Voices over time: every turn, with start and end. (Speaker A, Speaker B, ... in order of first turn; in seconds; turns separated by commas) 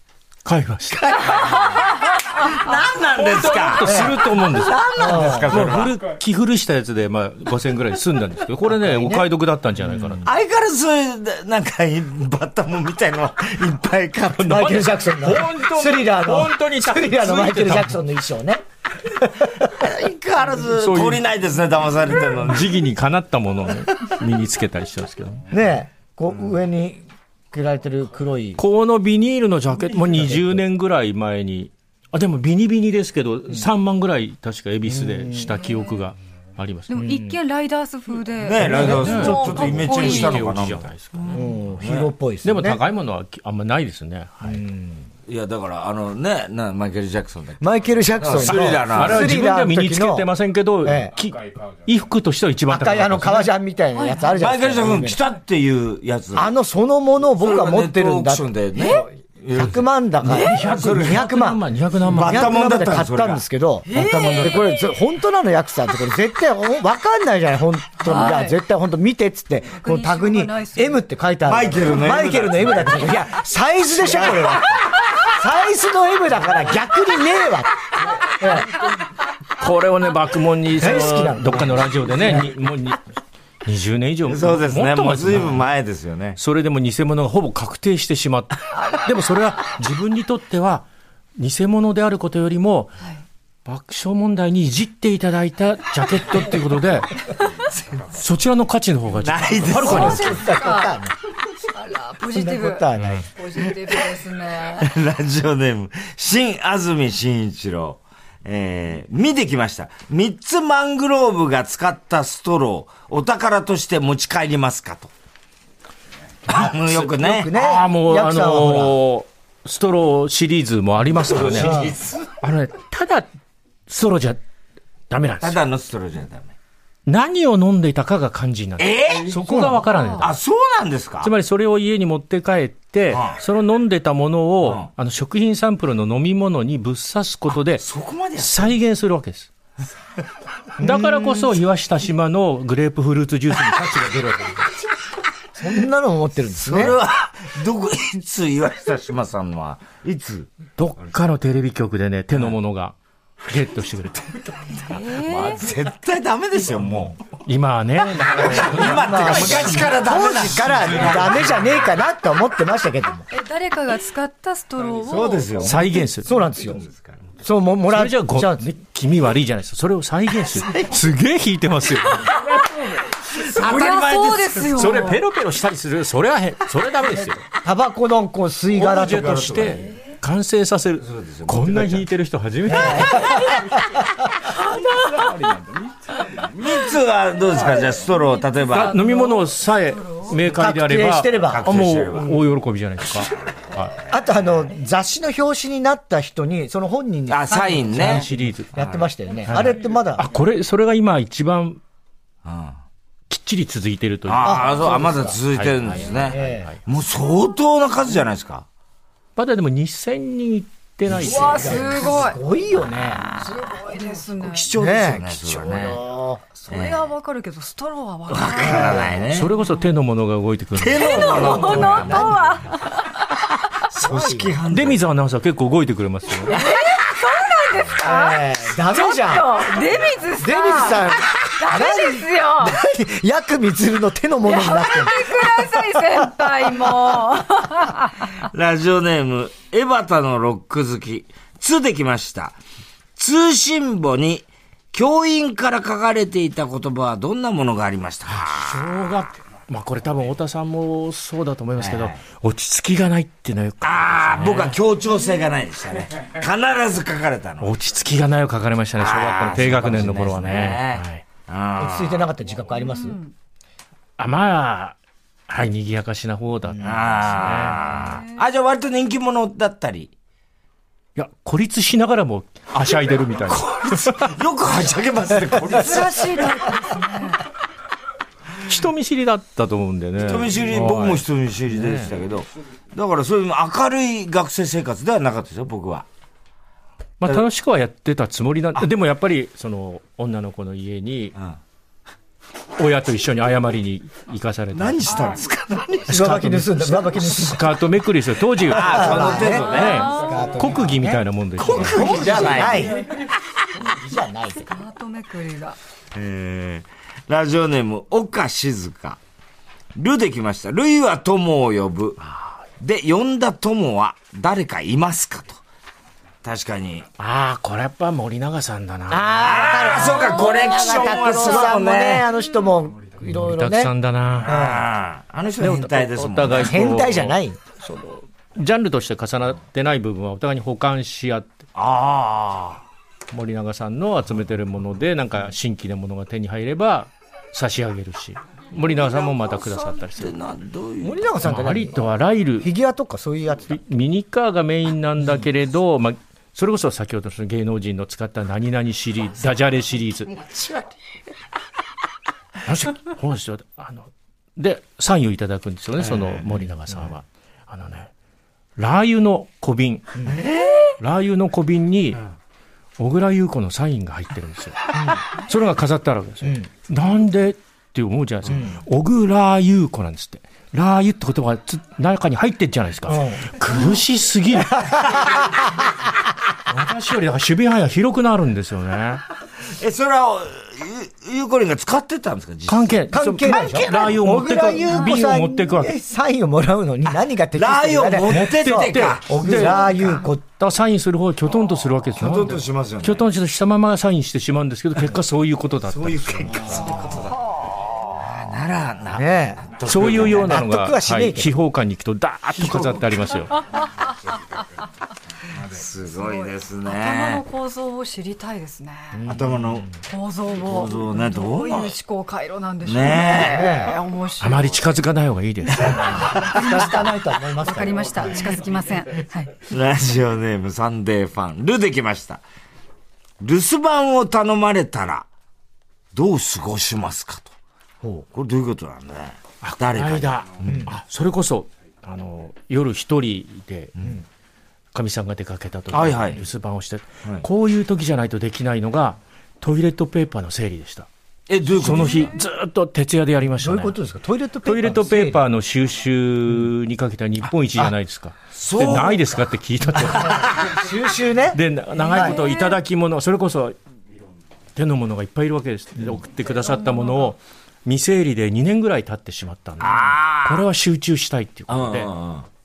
Speaker A: 0.5-1.4, Speaker B: 1.0-6.0, Speaker A: 3.2-10.3, Speaker C: 3.8-4.2, Speaker C: 5.0-5.5, Speaker C: 8.7-10.2, Speaker B: 10.2-14.7, Speaker A: 14.4-17.9, Speaker C: 14.4-19.7, Speaker B: 19.7-22.7, Speaker A: 20.7-21.2, Speaker A: 22.4-25.5, Speaker C: 25.5-28.6, Speaker A: 28.6-37.0, Speaker C: 30.0-30.6, Speaker C: 34.9-35.6, Speaker D: 36.9-40.5, Speaker C: 37.0-37.4, Speaker B: 38.4-40.9, Speaker C: 38.6-39.3, Speaker A: 38.8-41.4, Speaker D: 41.1-41.5, Speaker C: 41.3-42.8, Speaker B: 41.8-42.1, Speaker A: 42.4-44.7, Speaker C: 44.4-45.1, Speaker B: 45.3-47.6, Speaker C: 47.6-50.3, Speaker B: 48.2-49.3, Speaker A: 48.9-53.5, Speaker C: 50.8-51.1, Speaker C: 52.7-55.2, Speaker D: 53.9-54.3, Speaker B: 54.4-56.5, Speaker C: 56.4-78.7, Speaker B: 57.4-61.3, Speaker D: 58.8-59.0, Speaker A: 60.2-62.6, Speaker B: 62.1-64.8, Speaker D: 63.9-65.0, Speaker D: 68.0-68.6, Speaker D: 69.8-71.0, Speaker B: 71.5-73.3, Speaker B: 74.2-74.6, Speaker A: 79.6-83.0, Speaker C: 80.8-82.5, Speaker A: 83.7-85.7, Speaker B: 84.3-86.4, Speaker A: 86.4-93.0, Speaker A: 93.7-97.3, Speaker A: 98.1-100.2, Speaker B: 99.2-100.3, Speaker C: 99.7-101.2, Speaker D: 99.7-101.0, Speaker D: 101.7-104.9, Speaker C: 102.3-103.3, Speaker A: 103.0-103.2, Speaker B: 103.6-104.1, Speaker B: 104.8-115.1, Speaker B: 116.5-117.5, Speaker C: 116.5-119.0, Speaker A: 117.5-121.8, Speaker B: 121.0-122.4, Speaker C: 121.5-122.0, Speaker A: 122.4-123.3, Speaker A: 123.9-124.4, Speaker A: 125.1-125.6, Speaker B: 125.4-126.5, Speaker A: 127.1-130.3, Speaker B: 128.8-131.3, Speaker D: 129.9-130.3, Speaker A: 131.2-137.8, Speaker B: 133.1-133.4, Speaker B: 134.6-134.9, Speaker B: 137.7-138.8, Speaker A: 138.4-139.5, Speaker C: 140.8-141.5, Speaker A: 140.8-144.6, Speaker C: 145.6-147.0, Speaker B: 146.6-150.5, Speaker A: 150.8-155.0, Speaker D: 154.9-155.7, Speaker B: 154.9-157.2, Speaker A: 157.4-161.6, Speaker B: 158.2-161.8, Speaker C: 158.8-163.3, Speaker D: 163.3-165.7, Speaker B: 164.9-167.2, Speaker A: 165.6-166.3, Speaker C: 166.2-166.8, Speaker C: 167.4-168.7, Speaker A: 167.9-172.3, Speaker B: 172.4-175.0, Speaker D: 173.4-175.2, Speaker A: 174.7-177.4, Speaker C: 177.6-179.8, Speaker A: 178.8-183.5, Speaker B: 178.8-179.9, Speaker B: 181.0-182.1, Speaker C: 182.7-184.0, Speaker B: 184.5-189.0, Speaker D: 188.7-190.4, Speaker A: 188.7-193.9, Speaker C: 190.4-192.0, Speaker B: 191.3-192.4, Speaker C: 194.1-200.3, Speaker B: 197.3-199.1, Speaker A: 197.9-198.8, Speaker A: 199.5-201.8, Speaker B: 202.4-202.8, Speaker A: 203.3-206.8, Speaker B: 204.3-208.7, Speaker C: 204.4-206.7, Speaker A: 209.4-211.9, Speaker D: 211.2-212.4, Speaker C: 211.3-213.3, Speaker B: 212.9-213.8, Speaker D: 213.6-214.7, Speaker B: 214.4-216.0, Speaker C: 214.7-216.5, Speaker D: 216.7-219.1, Speaker B: 216.7-217.0, Speaker B: 218.3-219.5, Speaker C: 218.6-219.1, Speaker A: 219.3-222.3, Speaker B: 220.7-222.3, Speaker D: 220.9-223.3, Speaker C: 221.9-222.5, Speaker B: 223.9-225.1, Speaker C: 224.0-224.6, Speaker A: 224.7-226.6, Speaker D: 226.5-232.8, Speaker C: 227.9-236.5, Speaker D: 234.5-238.4, Speaker B: 238.4-242.6, Speaker B: 243.2-249.1, Speaker A: 248.3-254.8, Speaker B: 251.8-252.2, Speaker B: 253.8-257.7, Speaker A: 257.6-261.2, Speaker B: 259.0-262.2, Speaker C: 261.8-263.2, Speaker D: 262.9-263.3, Speaker A: 264.2-265.0, Speaker A: 265.5-267.8, Speaker C: 266.7-267.0, Speaker B: 266.8-270.1, Speaker D: 267.9-268.4, Speaker A: 271.2-274.3, Speaker B: 273.5-276.6, Speaker D: 275.6-277.4, Speaker A: 278.6-281.2, Speaker B: 280.2-286.1, Speaker C: 281.7-282.1, Speaker A: 287.2-291.4, Speaker A: 292.8-295.3, Speaker B: 294.7-296.2, Speaker A: 296.1-302.7, Speaker C: 296.1-297.8, Speaker B: 298.6-300.2, Speaker C: 298.7-303.1, Speaker D: 299.3-300.5, Speaker B: 301.6-303.4, Speaker C: 303.8-304.8, Speaker D: 304.7-305.8, Speaker B: 306.1-309.2, Speaker B: 309.9-312.2, Speaker B: 312.8-315.6, Speaker B: 316.4-317.1, Speaker A: 317.2-319.5, Speaker C: 319.1-323.9, Speaker B: 319.4-322.3, Speaker D: 320.0-321.8, Speaker A: 323.2-324.6, Speaker B: 324.4-327.1, Speaker C: 324.5-324.9, Speaker A: 325.6-331.6, Speaker C: 326.5-327.6, Speaker B: 331.8-332.8, Speaker A: 333.3-340.4, Speaker B: 339.4-341.3, Speaker C: 341.0-342.1, Speaker A: 341.4-342.7, Speaker C: 342.6-343.8, Speaker A: 343.7-350.4, Speaker A: 352.6-358.1, Speaker A: 358.8-360.3, Speaker C: 360.2-360.4, Speaker A: 361.0-362.2, Speaker A: 363.0-375.2, Speaker C: 364.9-365.2, Speaker C: 368.5-368.8, Speaker C: 373.1-373.6, Speaker C: 374.7-375.9, Speaker A: 376.7-379.2, Speaker B: 379.6-384.2, Speaker A: 382.7-385.9, Speaker C: 383.1-390.4, Speaker B: 387.6-390.2, Speaker A: 388.3-390.0, Speaker A: 390.5-396.6, Speaker B: 392.2-393.2, Speaker B: 395.9-400.6, Speaker C: 396.5-397.1, Speaker C: 399.1-401.5, Speaker A: 399.9-403.6, Speaker B: 402.6-403.1, Speaker D: 403.8-404.1, Speaker B: 405.5-407.4, Speaker D: 406.1-409.2, Speaker C: 409.1-410.0, Speaker B: 409.3-409.9, Speaker D: 410.1-414.8, Speaker B: 410.5-411.9, Speaker B: 412.8-413.9, Speaker C: 413.3-414.0, Speaker A: 414.4-416.1, Speaker D: 415.7-419.5, Speaker B: 416.0-416.5, Speaker C: 416.1-418.4, Speaker B: 419.7-422.4, Speaker B: 423.4-425.3, Speaker B: 426.1-427.5, Speaker B: 428.3-430.8, Speaker A: 429.6-434.0, Speaker C: 430.7-430.9, Speaker B: 434.0-434.2, Speaker A: 434.9-441.1, Speaker B: 435.9-436.4, Speaker B: 441.5-442.4, Speaker A: 441.7-444.0, Speaker C: 443.6-445.4, Speaker A: 444.6-450.7, Speaker B: 448.5-449.4, Speaker C: 450.0-452.3, Speaker A: 451.5-453.8, Speaker D: 452.0-452.8, Speaker A: 454.8-462.1, Speaker D: 456.6-457.3, Speaker B: 459.8-460.6, Speaker B: 461.7-462.5